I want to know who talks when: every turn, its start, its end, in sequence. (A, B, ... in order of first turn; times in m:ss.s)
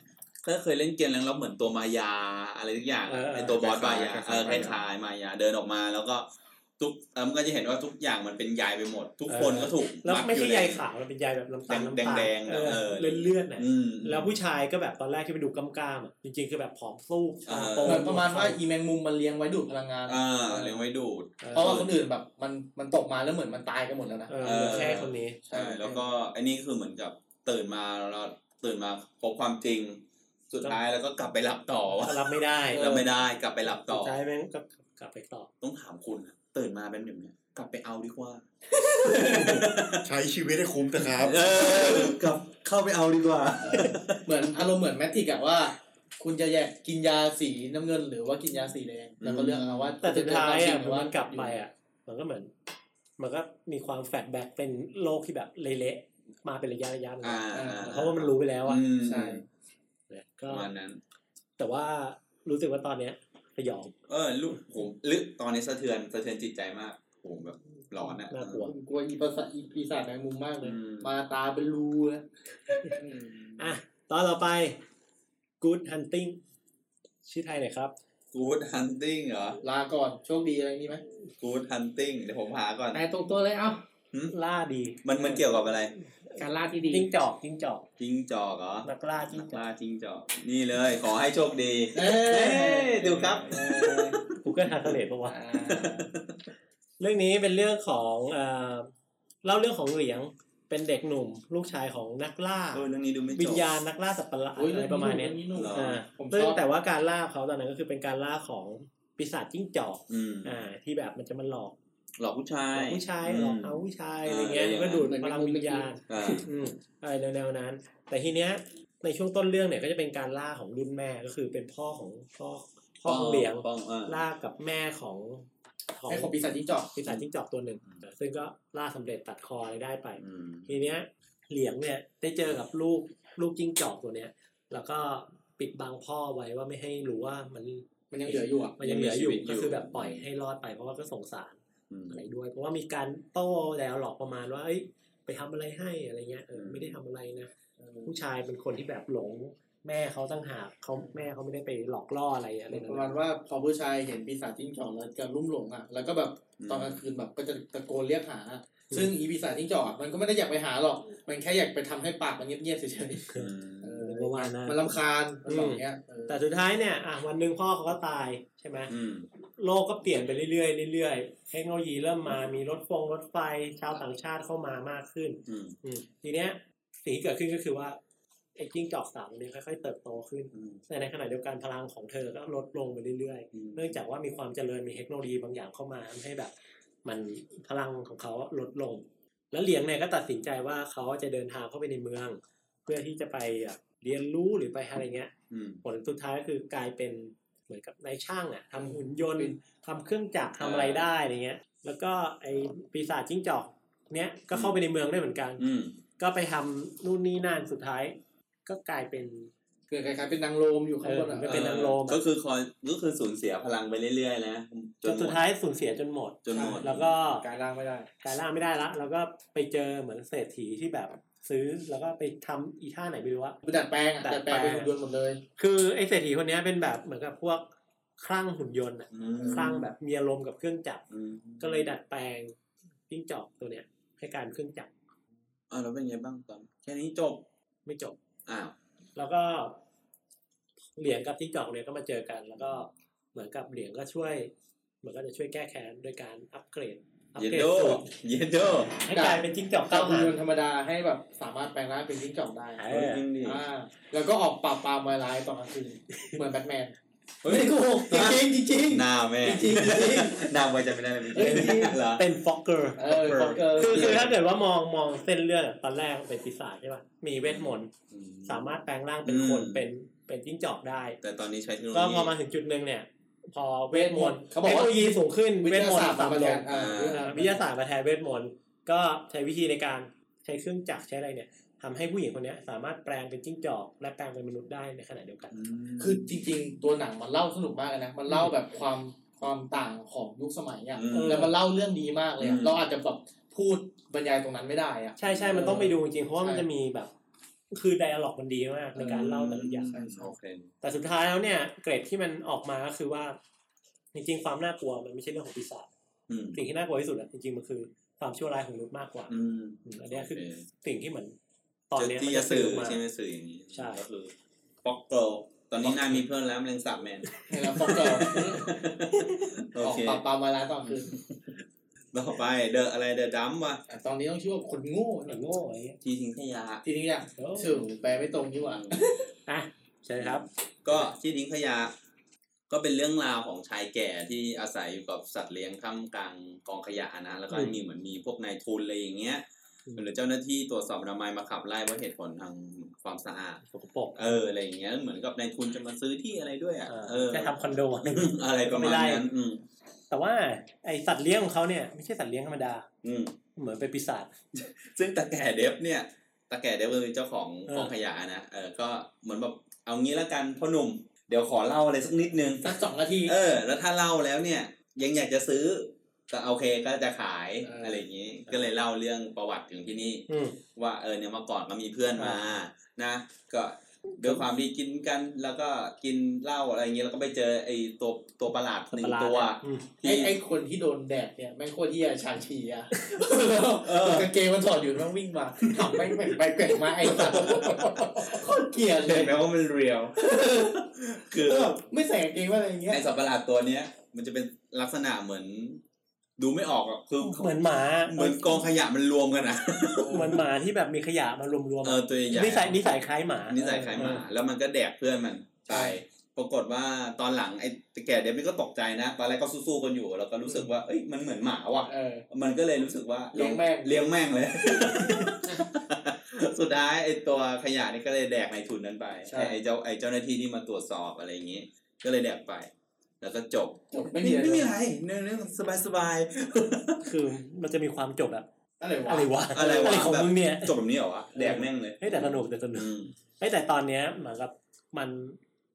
0:00.4-0:10.8 A
0:03.1-0:04.7 B
0:03.6-0:04.8 C
0:09.3-0:18.6 B
0:11.7-0:14.4 A
0:17.5-0:18.1 A
0:17.8-0:20.8 C
0:20.1-0:21.9 A
0:21.4-0:21.8 B
0:21.5-0:26.0 C
0:24.3-0:25.4 B
0:24.4-0:34.2 A
0:32.0-0:33.0 B
0:32.7-0:33.1 C
0:33.7-0:35.5 B
0:35.6-0:38.4 A
0:38.8-0:39.7 C
0:39.1-0:40.0 A
0:39.3-0:41.6 D
0:41.2-0:44.2 A
0:43.7-0:51.6 C
0:49.2-0:50.0 A
0:50.0-0:52.5 B
0:53.2-0:58.8 B
0:57.2-0:59.4 A
0:57.5-0:57.9 C
0:59.0-0:59.4 C
1:00.1-1:00.7 B
1:00.5-1:01.0 A
1:01.6-1:03.9 B
1:04.1-1:08.7 A
1:08.3-1:08.7 B
1:08.6-1:13.6 C
1:10.6-1:11.1 A
1:13.6-1:14.8 B
1:15.6-1:16.4 B
1:17.2-1:17.9 B
1:18.3-1:19.6 A
1:19.6-1:21.0 C
1:21.4-1:23.0 A
1:22.9-1:23.8 E
1:24.3-1:25.4 B
1:25.0-1:25.9 A
1:26.3-1:27.9 B
1:26.4-1:27.1 E
1:28.0-1:34.9 A
1:28.8-1:29.6 B
1:31.9-1:34.2 C
1:34.4-1:35.4 B
1:35.3-1:36.1 C
1:35.5-1:36.4 A
1:37.0-1:38.9 B
1:39.4-1:51.7 B
1:42.7-1:43.7 A
1:44.6-1:46.6 C
1:45.5-1:46.0 A
1:50.1-1:50.6 A
1:52.2-1:55.1 A
1:52.7-2:06.4 B
1:55.0-1:56.0 E
1:56.1-1:56.5 A
2:03.0-2:04.2 A
2:06.1-2:07.0 C
2:07.0-2:21.6 B
2:10.2-2:10.8 A
2:18.1-2:18.8 C
2:18.8-2:20.2 A
2:21.9-2:22.2 A
2:22.1-2:27.5 B
2:26.5-2:27.0 A
2:27.8-2:28.1 C
2:28.0-2:33.1 B
2:32.7-2:46.4 C
2:36.6-2:37.0 A
2:43.3-2:44.1 A
2:44.0-2:44.8 B
2:45.4-2:48.9 B
2:48.9-2:49.3 A
2:49.6-2:58.0 B
2:55.5-2:55.8 A
2:58.6-3:06.5 B
3:00.5-3:00.8 A
3:03.5-3:03.9 A
3:07.0-3:25.7 B
3:15.5-3:15.8 A
3:18.8-3:19.6 C
3:20.6-3:21.1 A
3:25.6-3:26.0 A
3:26.2-3:29.5 B
3:29.9-3:31.8 C
3:31.0-3:32.2 B
3:31.4-3:35.4 A
3:35.0-3:37.4 B
3:36.4-3:37.2 A
3:36.5-3:38.1 C
3:38.2-3:43.6 B
3:43.6-3:45.4 C
3:44.2-3:44.9 B
3:45.6-3:47.7 B
3:48.2-3:51.0 B
3:49.1-3:49.9 A
3:49.4-3:49.7 C
3:51.1-3:51.9 A
3:51.6-3:52.6 B
3:53.1-3:54.9 B
3:55.7-3:57.4 A
3:57.9-3:58.2 B
3:58.4-3:58.7 A
3:59.2-3:59.8 B
4:01.0-4:04.5 B
4:05.0-4:08.1 B
4:07.4-4:09.0 A
4:09.0-4:10.4 B
4:09.1-4:12.9 C
4:12.8-4:13.2 B
4:12.9-4:13.6 A
4:13.4-4:20.5 C
4:17.4-4:22.2 A
4:21.3-4:22.0 C
4:21.4-4:27.9 B
4:23.0-4:24.3 C
4:23.1-4:24.3 A
4:27.4-4:29.9 A
4:28.5-4:31.2 B
4:31.2-4:32.3 A
4:31.9-4:45.6 B
4:33.9-4:37.6 C
4:36.7-4:37.3 A
4:45.5-4:46.4 A
4:46.0-4:56.7 C
4:51.0-4:51.5 A
4:51.1-4:51.5 B
4:52.4-4:52.8 A
4:55.2-4:57.1 B
4:55.3-4:55.8 A
4:57.7-5:00.0 B
4:59.0-4:59.3 C
4:59.0-5:00.7 A
4:59.9-5:00.3 C
5:00.8-5:03.4 B
5:04.1-5:05.9 B
5:06.3-5:06.6 A
5:06.5-5:09.3 B
5:09.3-5:10.6 A
5:09.8-5:11.4 B
5:11.9-5:13.0 B
5:12.0-5:14.3 A
5:13.7-5:14.0 B
5:14.8-5:20.2 A
5:15.8-5:16.1 B
5:17.5-5:18.8 C
5:17.7-5:18.6 B
5:19.8-5:21.1 C
5:20.9-5:21.5 A
5:22.1-5:23.8 A
5:23.9-5:25.4 C
5:25.3-5:26.0 B
5:26.0-5:26.8 A
5:26.8-5:29.3 C
5:27.4-5:27.8 B
5:29.5-5:30.5 B
5:30.2-5:31.9 A
5:32.7-5:39.4 A
5:37.5-5:37.8 B
5:40.0-5:43.6 A
5:43.7-5:44.4 B
5:44.1-5:49.6 A
5:46.9-5:49.3 B
5:50.1-5:52.9 B
5:53.0-5:53.4 A
5:53.6-5:54.3 B
5:54.5-6:20.4 A
5:57.7-5:57.9 B
6:02.6-6:03.4 C
6:07.6-6:08.0 C
6:10.3-6:10.6 B
6:12.2-6:12.4 B
6:18.9-6:19.9 B
6:20.0-6:29.4 C
6:23.0-6:23.2 B
6:23.8-6:24.3 A
6:27.0-6:28.5 A
6:29.0-6:31.8 A
6:30.2-6:30.8 C
6:31.4-6:33.0 C
6:32.9-6:35.8 A
6:36.4-6:40.4 A
6:37.2-6:38.7 B
6:40.0-6:40.4 C
6:40.1-6:44.2 B
6:41.8-6:42.8 A
6:43.5-7:02.7 A
6:43.6-6:44.1 C
6:45.7-6:46.0 C
6:51.9-6:52.2 C
6:53.3-6:54.1 C
6:59.3-6:59.6 C
7:03.2-7:07.0 A
7:03.9-7:04.7 C
7:07.0-7:08.5 B
7:08.8-7:10.0 C
7:09.0-7:10.8 B
7:09.5-7:13.1 A
7:11.4-7:15.4 B